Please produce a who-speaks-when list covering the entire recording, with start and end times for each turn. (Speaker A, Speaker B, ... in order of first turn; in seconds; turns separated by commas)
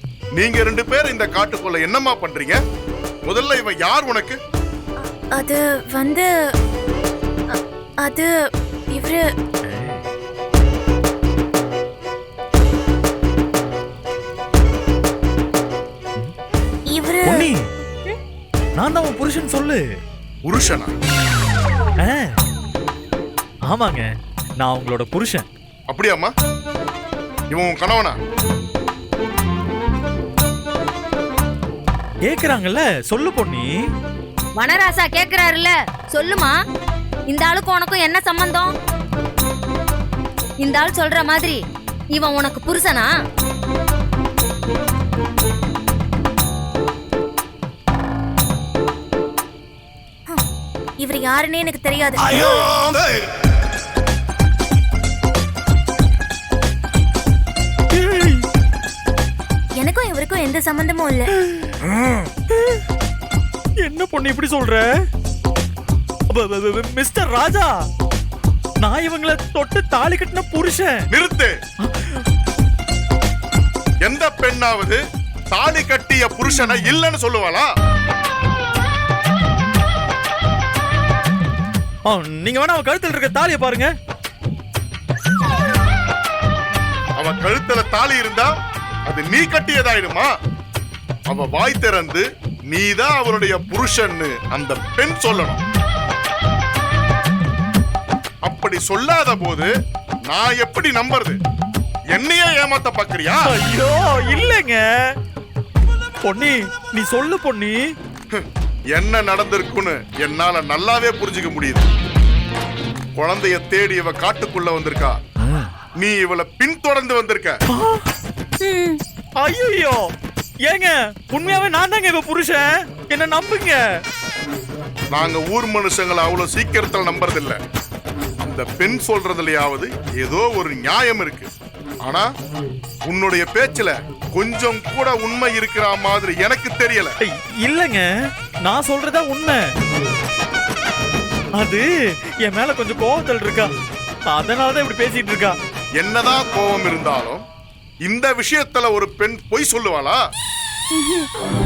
Speaker A: 0.3-2.6, Speaker A: 3.3-4.4, Speaker B: 5.3-6.3, Speaker B: 7.5-8.3, Speaker B: 8.9-9.2, Speaker C: 9.7-10.0, Speaker B: 16.9-17.5, Speaker C: 17.2-17.7, Speaker C: 18.8-19.9, Speaker A: 20.4-20.9, Speaker C: 22.0-22.4, Speaker C: 23.7-25.5, Speaker A: 25.9-26.3, Speaker A: 27.5-28.2, Speaker C: 32.3-33.7, Speaker D: 34.6-36.6, Speaker D: 37.3-38.7, Speaker D: 40.6-41.6, Speaker D: 42.1-43.1, Speaker B: 51.0-52.8, Speaker A: 52.5-53.2, Speaker C: 57.9-58.5, Speaker B: 59.8-61.3, Speaker C: 61.3-62.8, Speaker C: 63.8-64.8, Speaker C: 66.3-67.7, Speaker C: 68.8-71.0, Speaker A: 71.1-71.6, Speaker C: 71.8-72.2, Speaker A: 74.0-75.0, Speaker A: 75.5-77.7, Speaker C: 82.1-83.9, Speaker A: 87.2-88.5, Speaker A: 89.1-90.3, Speaker A: 91.3-95.6, Speaker A: 98.5-99.7, Speaker A: 100.3-101.4, Speaker A: 102.1-103.5, Speaker C: 103.5-104.8, Speaker C: 106.2-107.8, Speaker A: 108.3-111.9, Speaker A: 113.2-115.2, Speaker C: 115.4-115.7, Speaker A: 116.0-117.6, Speaker C: 117.7-118.1, Speaker B: 118.6-119.0, Speaker C: 119.4-120.1, Speaker C: 120.7-124.0, Speaker A: 125.1-127.6, Speaker A: 128.4-131.5, Speaker A: 132.0-132.3, Speaker A: 133.1-137.2, Speaker C: 137.3-138.1, Speaker C: 138.6-139.7, Speaker C: 141.6-141.9, Speaker C: 142.4-143.7, Speaker C: 144.3-145.6, Speaker A: 146.0-147.4, Speaker A: 148.1-150.2, Speaker B: 151.0-151.3